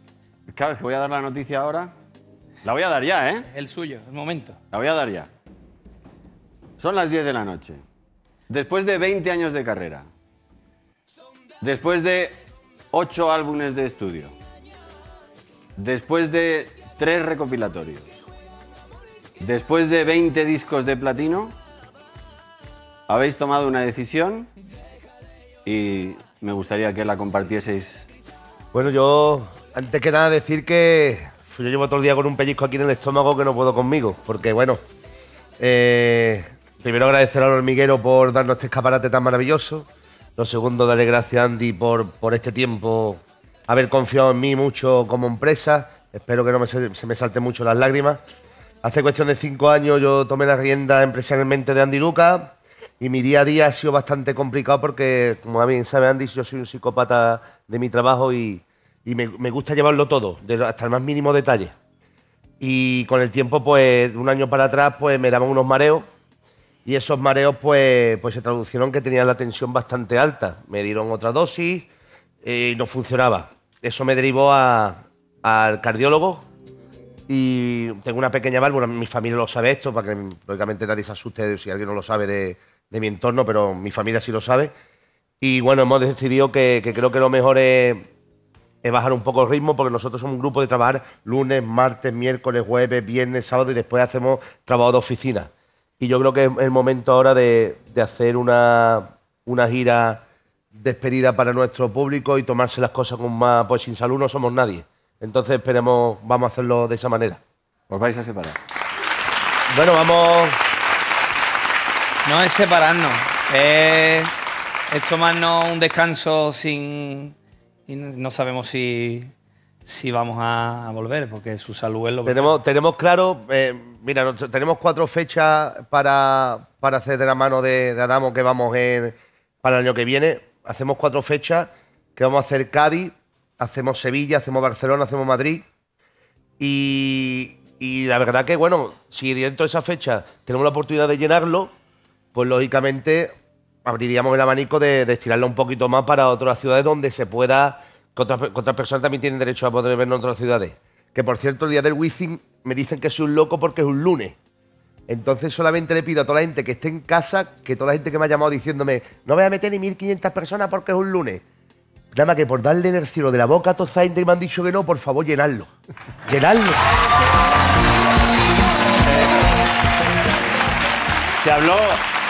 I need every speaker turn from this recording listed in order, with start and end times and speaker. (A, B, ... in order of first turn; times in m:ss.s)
0:00.5-0:01.9 A
0:02.6-0:03.5 A
0:03.5-0:04.6 B
0:04.7-0:05.3 A
0:06.8-0:07.8 A
0:08.5-0:10.1 A
0:11.6-0:12.4 A
0:12.9-0:14.4 A
0:15.8-0:18.1 A
0:19.4-0:21.5 A
0:23.1-0:24.5 A
0:25.6-0:28.0 A
0:28.7-0:34.8 C
0:35.6-0:48.2 C
0:48.8-1:01.7 C
1:02.6-1:06.0 C
1:06.9-1:11.9 C
1:12.4-1:16.4 C
1:17.3-1:24.7 C
1:25.4-1:28.0 C
1:28.8-1:40.2 C
1:40.7-1:47.4 C
1:47.9-1:48.6 A
1:49.7-1:50.6 C
1:52.2-1:54.3 B
1:54.9-1:57.4 B
1:57.9-1:59.3 B
1:59.9-2:02.5 B
2:02.2-2:15.6 C
2:16.6-2:21.7 C
2:22.3-2:23.3 C
2:23.8-2:34.4 C
2:35.1-2:41.4 C
2:42.1-2:45.7 C
2:46.3-2:46.8 C
2:49.0-2:49.5 A
2:51.4-2:52.0 A